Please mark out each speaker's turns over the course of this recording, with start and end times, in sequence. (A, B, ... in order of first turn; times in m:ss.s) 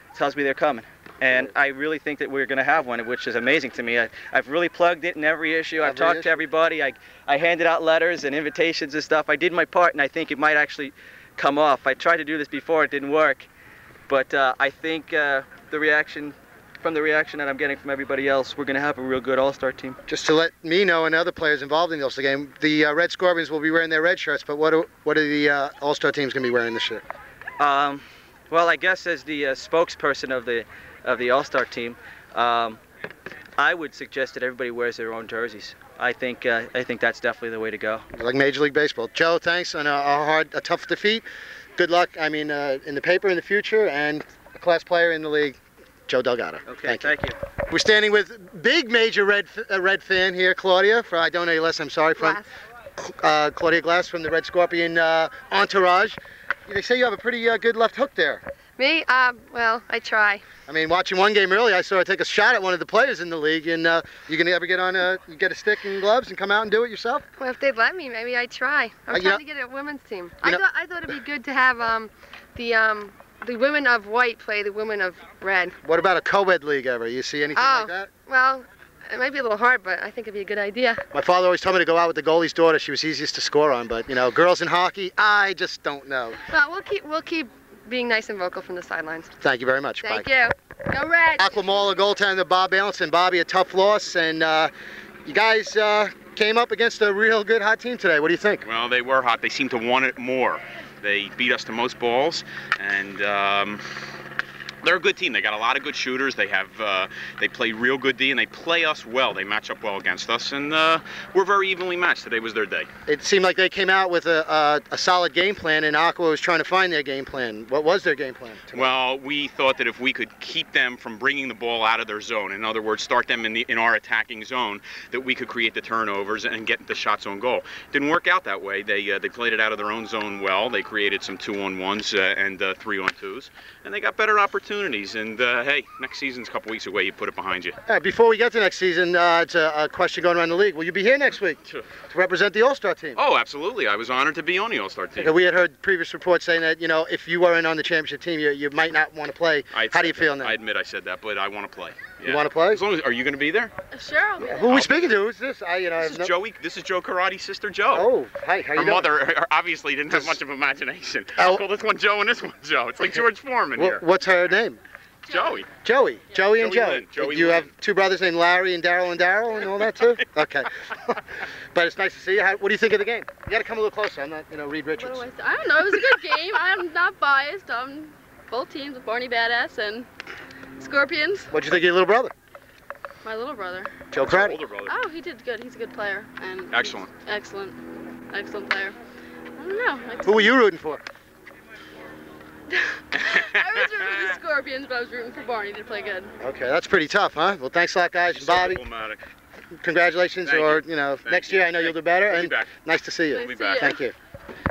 0:00.2-0:13.5 A
0:05.8-0:06.4 B
0:14.1-0:20.0 A
0:20.1-0:27.0 B
0:27.6-0:32.8 A
0:33.6-0:38.0 A
0:38.1-0:41.2 B
0:41.8-0:47.1 B
0:46.7-0:47.4 A
0:47.7-0:52.4 B
0:52.2-0:52.4 C
0:53.0-0:58.4 B
0:58.8-1:00.4 C
1:00.7-1:07.3 B
1:07.4-1:15.7 C
1:09.1-1:09.4 B
1:15.8-1:18.1 B
1:17.6-1:21.0 C
1:21.1-1:26.4 B
1:26.5-1:29.3 C
1:29.4-1:30.3 B
1:30.0-1:31.9 C
1:31.4-1:34.7 B
1:35.3-1:38.6 B
1:38.6-1:43.8 D
1:44.8-1:52.9 D
1:53.1-1:58.9 B
1:58.7-2:17.8 D
2:17.9-2:23.2 B
2:23.2-2:25.4 D
2:25.2-2:30.6 B
2:29.7-2:33.7 D
2:32.2-2:32.8 B
2:33.9-2:34.8 E
2:34.4-2:36.3 B
2:34.5-2:35.2 D
2:36.0-2:38.1 D
2:37.9-2:39.1 B
2:38.8-2:44.0 D
2:41.4-2:41.6 B
2:43.8-2:44.8 B
2:45.3-2:45.7 D
2:45.8-2:55.3 B
2:46.4-2:47.7 D
2:55.0-3:00.1 E
3:00.8-3:01.5 E
3:01.5-3:02.3 B
3:03.2-3:04.0 E
3:04.1-3:04.6 B
3:04.2-3:05.0 D
3:04.9-3:07.8 E
3:06.7-3:07.1 D
3:08.3-3:09.0 E
3:09.6-3:10.6 E
3:10.2-3:11.0 B
3:12.7-3:16.3 E
3:13.2-3:14.4 D
3:16.4-3:18.8 B
3:18.3-3:19.2 D
3:19.8-3:24.1 B
3:20.4-3:22.7 D
3:23.3-3:24.0 E
3:23.4-3:24.0 D